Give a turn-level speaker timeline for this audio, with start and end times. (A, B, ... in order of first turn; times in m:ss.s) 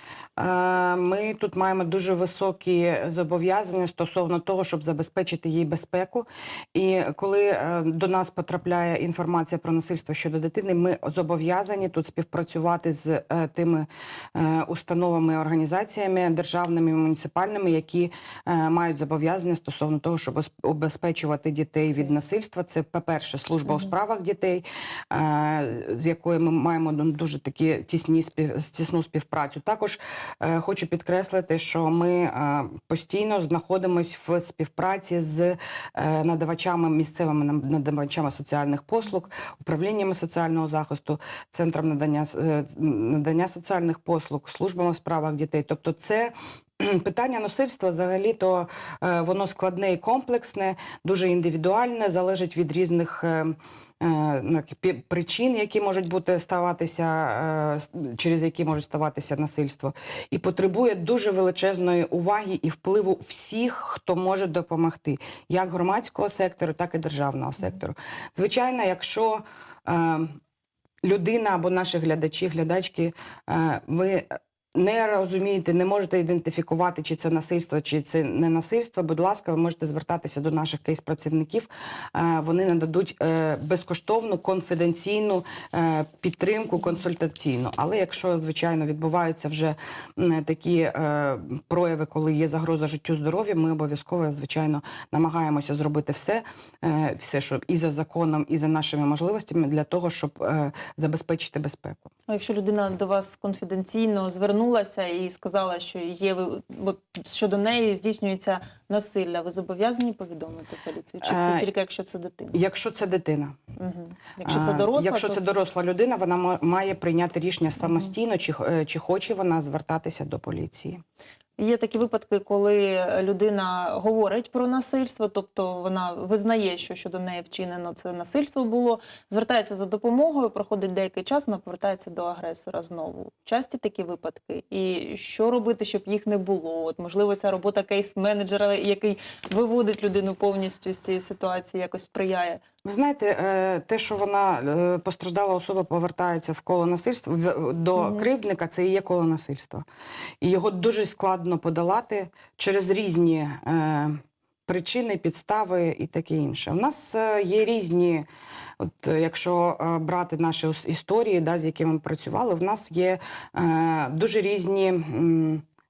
0:00.4-1:10.4 A
1:11.0-1:42.1 A
1:42.3-1:52.6 B
1:51.2-1:51.7 A
1:52.5-1:53.6 A
1:53.8-1:55.4 B
1:54.4-2:01.0 A
2:01.6-2:22.6 B
2:22.8-2:29.8 A
2:30.4-2:38.3 A
2:38.8-2:45.6 A